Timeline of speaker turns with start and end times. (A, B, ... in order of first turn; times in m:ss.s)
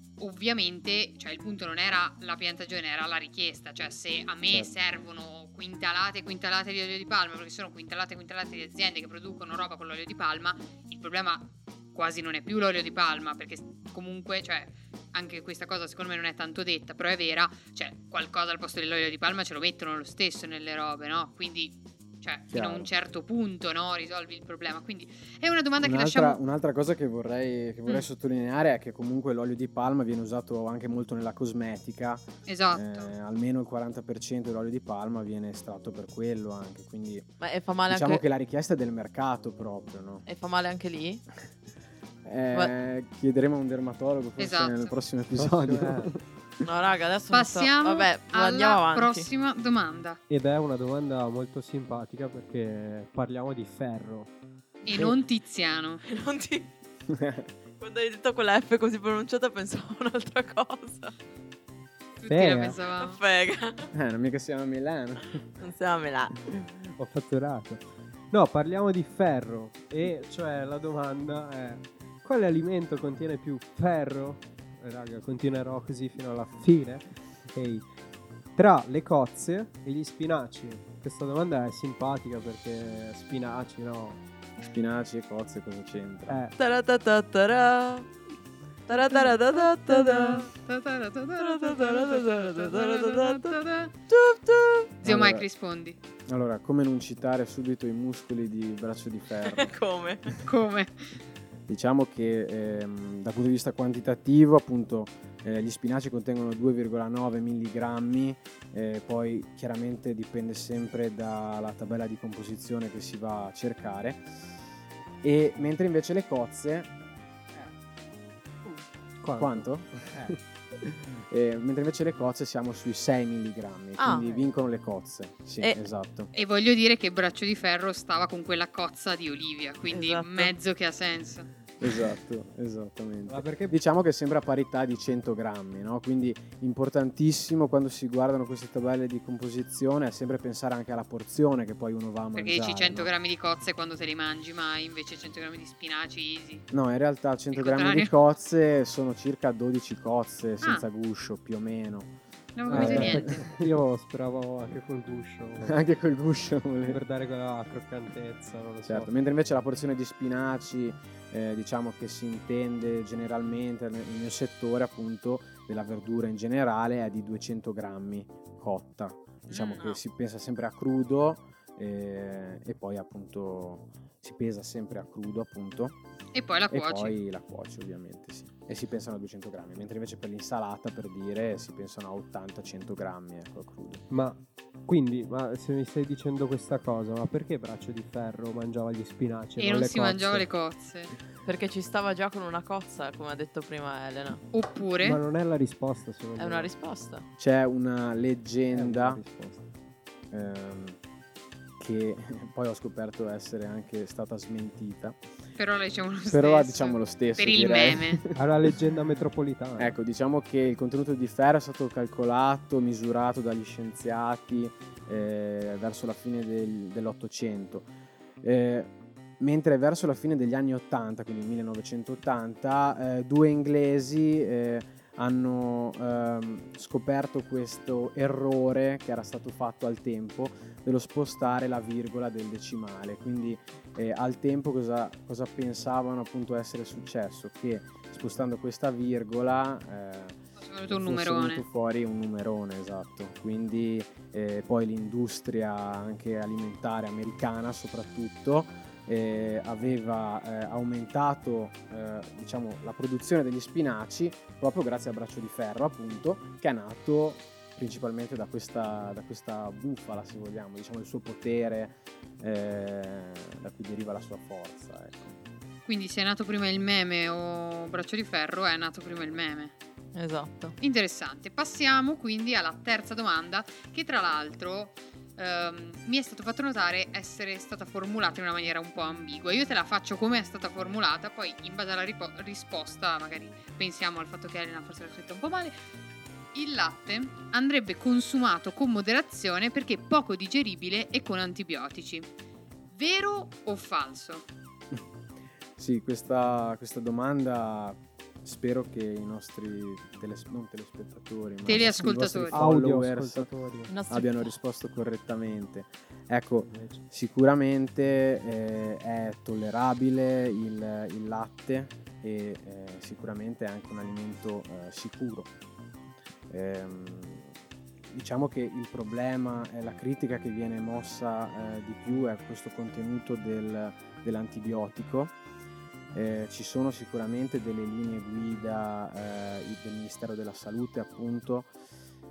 0:00.2-0:26.4 A
0:04.5-0:04.7 B
0:22.5-0:22.9 B
0:25.8-0:37.3 B
0:32.4-0:33.1 A
0:37.4-0:38.2 C
0:37.9-0:40.2 B
0:40.2-0:41.2 C
0:42.2-0:46.2 B
0:44.4-0:44.9 A
0:45.4-0:46.1 D
0:46.6-0:49.3 C
0:47.3-0:50.2 A
0:50.3-0:54.3 D
0:54.8-0:56.0 A
0:56.0-0:56.7 C
0:57.1-0:57.5 B
0:57.8-1:01.1 C
1:02.2-1:03.2 A
1:02.3-1:02.8 D
1:02.8-1:03.9 C
1:03.9-1:05.4 B
1:05.6-1:06.4 C
1:07.0-1:17.9 D
1:18.6-1:24.2 D
1:24.6-1:26.4 B
1:26.3-1:26.5 D
1:26.6-1:28.1 C
1:28.9-1:30.5 C
1:28.9-1:33.9 A
1:31.4-1:33.6 C
1:34.1-1:34.9 C
1:35.0-1:35.4 B
1:35.0-1:36.0 A
1:36.3-1:39.7 B
1:39.4-1:40.4 C
1:40.4-1:41.1 A
1:41.7-1:54.3 B
1:55.2-1:56.9 B
1:58.6-2:00.4 D
1:59.4-2:06.3 B
2:04.0-2:04.3 C
2:04.2-2:04.6 D
2:06.3-2:11.5 A
2:09.9-2:10.5 C
2:11.8-2:23.1 B
2:13.3-2:13.8 D
2:22.3-2:26.6 A
2:26.7-2:32.1 B
2:27.5-2:28.1 A
2:30.6-2:30.9 A
2:32.6-2:33.4 A
2:32.7-2:35.8 D
2:32.7-2:33.6 B
2:35.6-2:37.0 B
2:36.9-2:39.1 D
2:38.8-2:56.0 B
2:49.5-2:49.8 A
2:56.3-2:57.2 A
2:56.7-3:04.0 B
3:04.1-3:10.5 D
3:09.6-3:11.1 A
3:11.4-3:14.4 C
3:14.5-3:15.2 A
3:15.0-3:16.7 D
3:16.4-3:17.2 C
3:17.4-3:19.2 B
3:18.7-3:19.6 D
3:20.3-3:21.0 B
3:21.8-3:25.2 B
3:25.6-3:28.2 A
3:26.3-3:28.4 B
3:28.4-3:30.0 D
3:29.8-3:37.9 B
3:38.4-4:25.4 B
4:00.6-4:01.6 A
4:25.8-4:29.7 A
4:30.1-4:30.8 C
4:30.8-4:45.8 A
4:46.5-4:52.3 A
4:52.9-4:54.4 A
4:55.8-5:03.5 B
5:01.6-5:02.6 A
5:01.8-5:03.9 D
5:03.9-5:04.6 C
5:04.1-5:15.5 B
5:06.7-5:07.0 D
5:16.5-5:17.5 B
5:18.1-5:25.3 B
5:26.1-5:31.7 B